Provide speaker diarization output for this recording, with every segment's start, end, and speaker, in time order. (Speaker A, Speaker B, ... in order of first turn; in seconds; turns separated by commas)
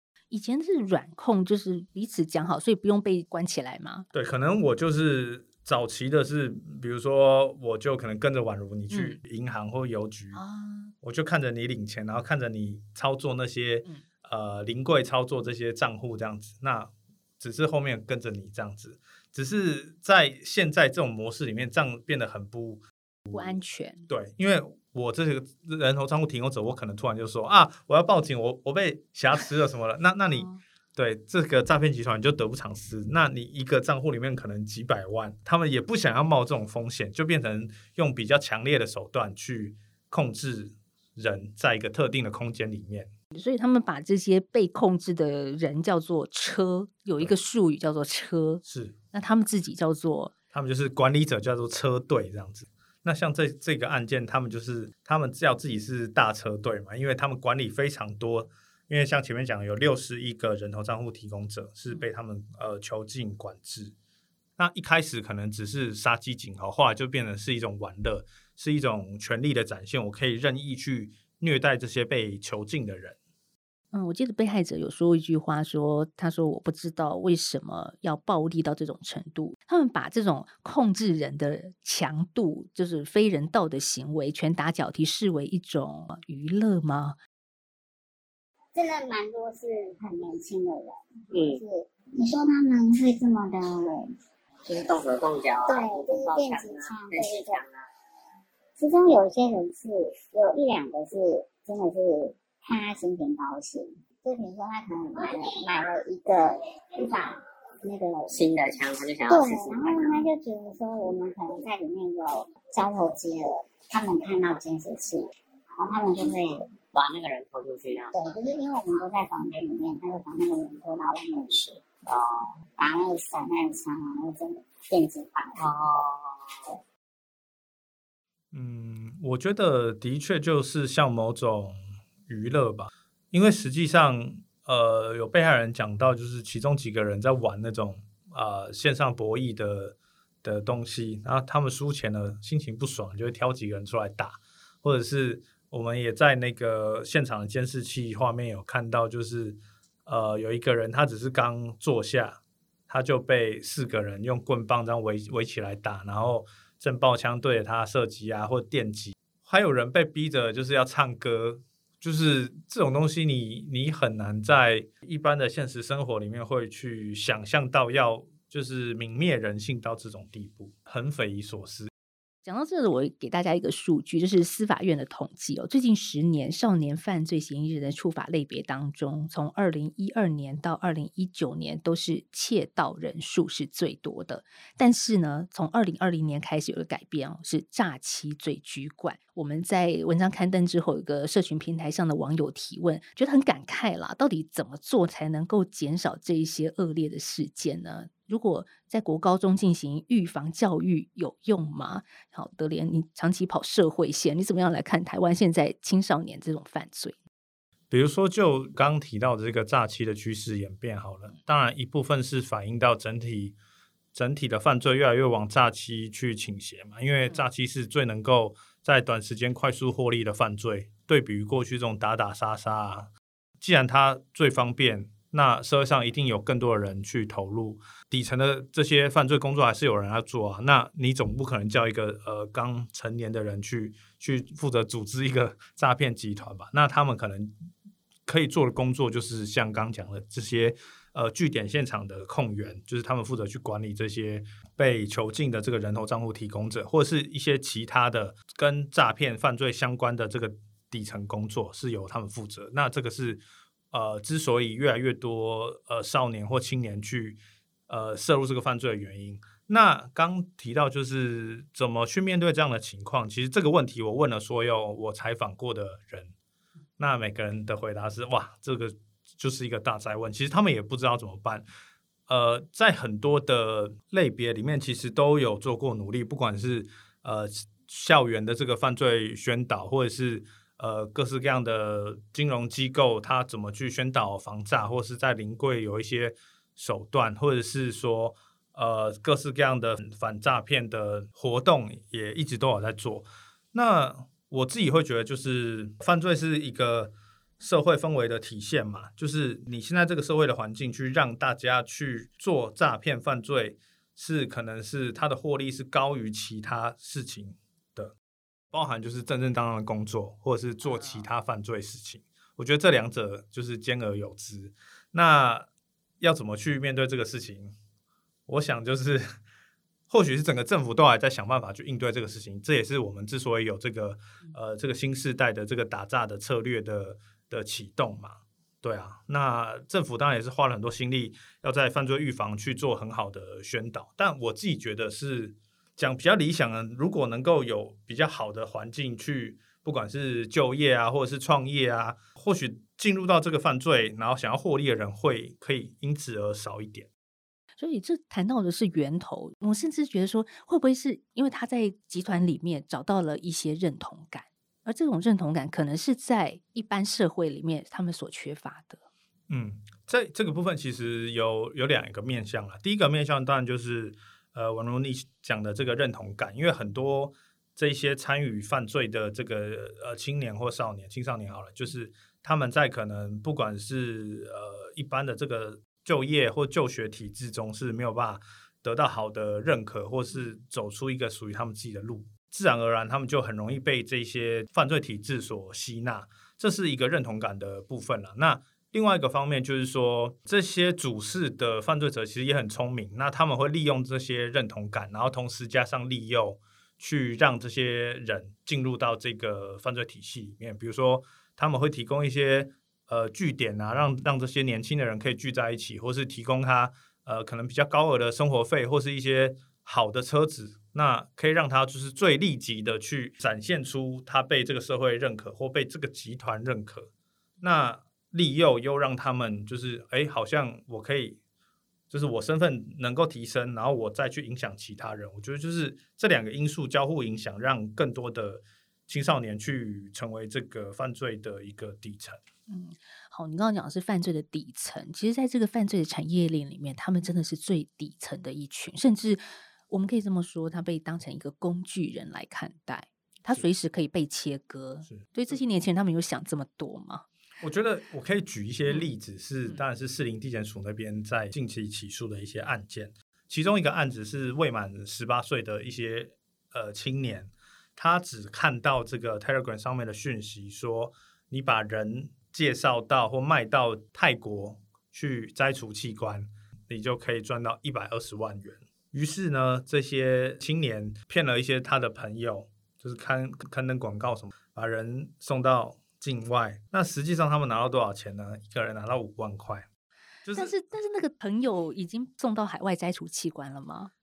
Speaker A: 0.3-4.1, Speaker B: 4.1-10.4, Speaker A: 8.9-9.2, Speaker A: 10.3-10.9, Speaker B: 11.0-23.6, Speaker A: 23.3-24.1, Speaker B: 24.1-43.1, Speaker A: 30.3-30.6, Speaker A: 43.3-50.3, Speaker B: 48.7-49.0, Speaker B: 50.5-64.0, Speaker B: 64.6-73.2, Speaker A: 73.9-87.2, Speaker C: 88.7-94.1, Speaker D: 91.3-91.6, Speaker D: 94.7-97.8, Speaker C: 95.7-97.6, Speaker C: 98.8-108.4, Speaker D: 108.3-110.1, Speaker C: 109.3-116.7, Speaker D: 116.9-118.1, Speaker C: 118.1-121.8, Speaker D: 122.1-122.5, Speaker C: 122.8-125.6, Speaker D: 125.6-126.3, Speaker B: 128.5-131.8, Speaker B: 132.3-171.9, Speaker A: 172.4-207.2, Speaker B: 207.9-213.6, Speaker B: 214.1-223.1, Speaker B: 223.6-237.5, Speaker B: 238.3-266.3, Speaker B: 267.0-271.7, Speaker B: 272.3-308.1, Speaker B: 308.7-315.7, Speaker A: 311.0-311.2, Speaker B: 316.2-317.8, Speaker B: 318.5-319.4, Speaker B: 320.1-347.1, Speaker A: 347.8-359.0, Speaker B: 359.5-421.4, Speaker B: 422.1-432.4, Speaker A: 432.7-447.3, Speaker B: 447.6-479.9, Speaker B: 480.4-480.7, Speaker A: 480.6-484.1